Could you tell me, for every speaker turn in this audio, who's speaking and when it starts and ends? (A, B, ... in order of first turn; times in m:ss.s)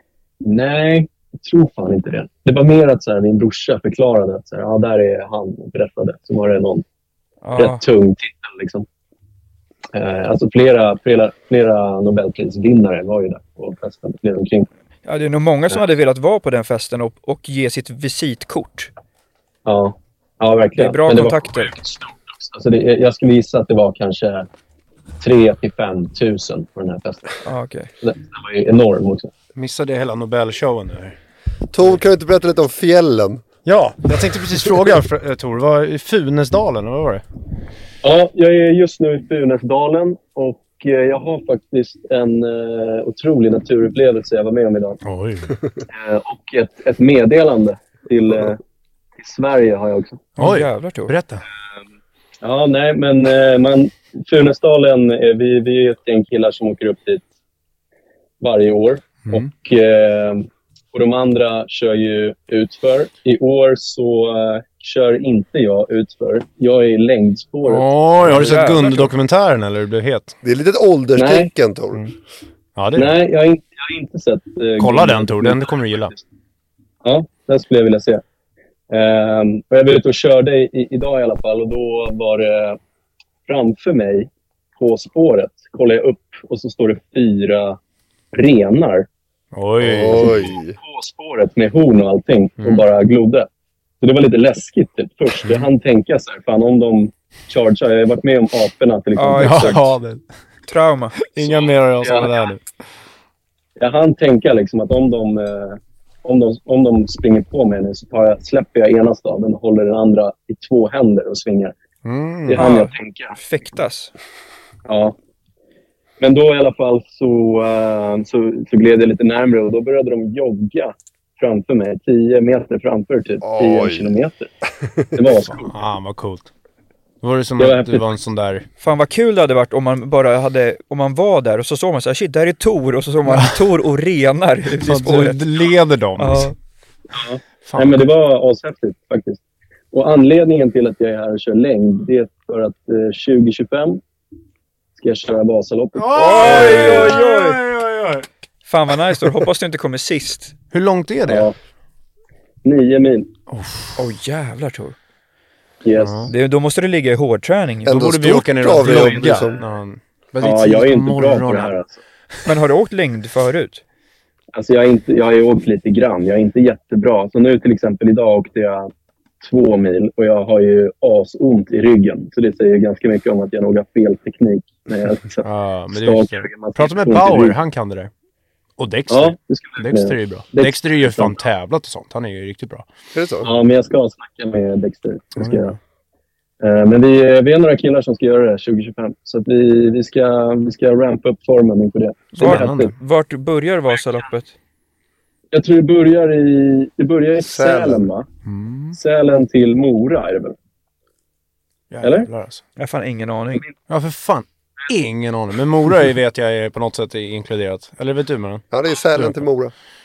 0:00.4-0:06.8 A
0:07.4-0:07.8 B
0:07.6-0:08.8 A
0:09.9-0:14.7 A
0:15.0-0:18.9 B
0:19.6-0:24.5 A
0:20.8-0:21.7 B
0:25.2-0:27.4 A
0:27.4-0:27.9 B
0:28.0-0:29.3 A
0:29.6-0:31.2 C
0:31.7-0:33.4 D
0:33.6-0:37.2 C
0:38.0-0:45.0 A
0:45.0-0:45.6 C
0:45.9-0:48.6 A
0:49.2-0:50.3 A
0:50.4-0:51.1 B
0:50.4-0:51.4 C
0:52.4-0:57.2 A
0:58.4-1:08.6 A
1:07.6-1:10.3 C
1:08.3-1:09.1 B
1:10.4-1:12.1 D
1:11.2-1:11.5 A
1:12.8-1:13.1 C
1:12.9-1:16.1 A
1:14.8-1:16.1 C
1:17.0-1:18.2 A
1:18.9-1:22.8 A
1:23.5-1:27.8 A
1:28.3-1:29.1 A
1:29.5-1:30.5 C
1:29.8-1:30.8 D
1:30.1-1:33.5 A
1:34.0-1:39.9 A
1:35.4-1:35.7 C
1:39.2-1:39.9 B
1:39.4-1:40.2 C
1:40.7-1:41.2 B
1:41.2-1:42.6 C
1:41.4-1:42.4 A
1:43.8-1:51.7 A
1:52.0-1:52.6 C
1:52.4-1:53.3 A
1:52.6-1:54.1 B
1:54.9-1:55.1 A
1:56.2-2:04.5 A
2:03.4-2:04.1 D
2:04.8-2:05.3 D
2:05.1-2:05.7 A
2:05.5-2:06.5 C
2:07.2-2:08.6 C
2:07.6-2:08.0 A
2:08.8-2:16.5 B
2:13.3-2:13.6 C
2:14.8-2:16.5 C
2:17.1-2:19.4 A
2:17.6-2:18.0 C
2:19.9-2:24.0 A
2:25.0-2:27.1 A
2:25.9-2:28.3 C
2:26.1-2:27.6 B
2:28.7-2:30.5 B
2:30.7-2:31.5 C
2:31.3-2:31.5 A
2:32.6-2:33.3 A
2:33.5-2:34.0 C
2:34.0-2:35.0 B
2:35.8-2:36.3 A
2:36.0-2:36.3 C
2:36.3-2:37.9 B
2:37.8-2:39.6 D
2:37.9-2:41.7 C
2:39.0-2:39.5 A
2:40.4-2:41.9 A
2:42.4-2:43.8 B
2:44.5-2:48.9 A
2:49.4-2:57.6 A
2:55.4-2:58.1 C
2:58.8-3:02.9 C
2:59.1-3:01.4 A
3:03.1-3:03.5 D
3:03.4-3:05.7 A
3:05.4-3:05.8 C
3:06.6-3:12.9 A
3:12.3-3:14.5 B
3:12.4-3:12.9 C
3:15.5-3:18.3 A
3:17.4-3:18.1 D
3:18.4-3:19.0 C
3:18.9-3:20.5 A
3:21.9-3:22.6 C
3:22.0-3:22.3 A
3:22.8-3:23.6 B
3:23.9-3:29.4 C
3:28.7-3:29.7 D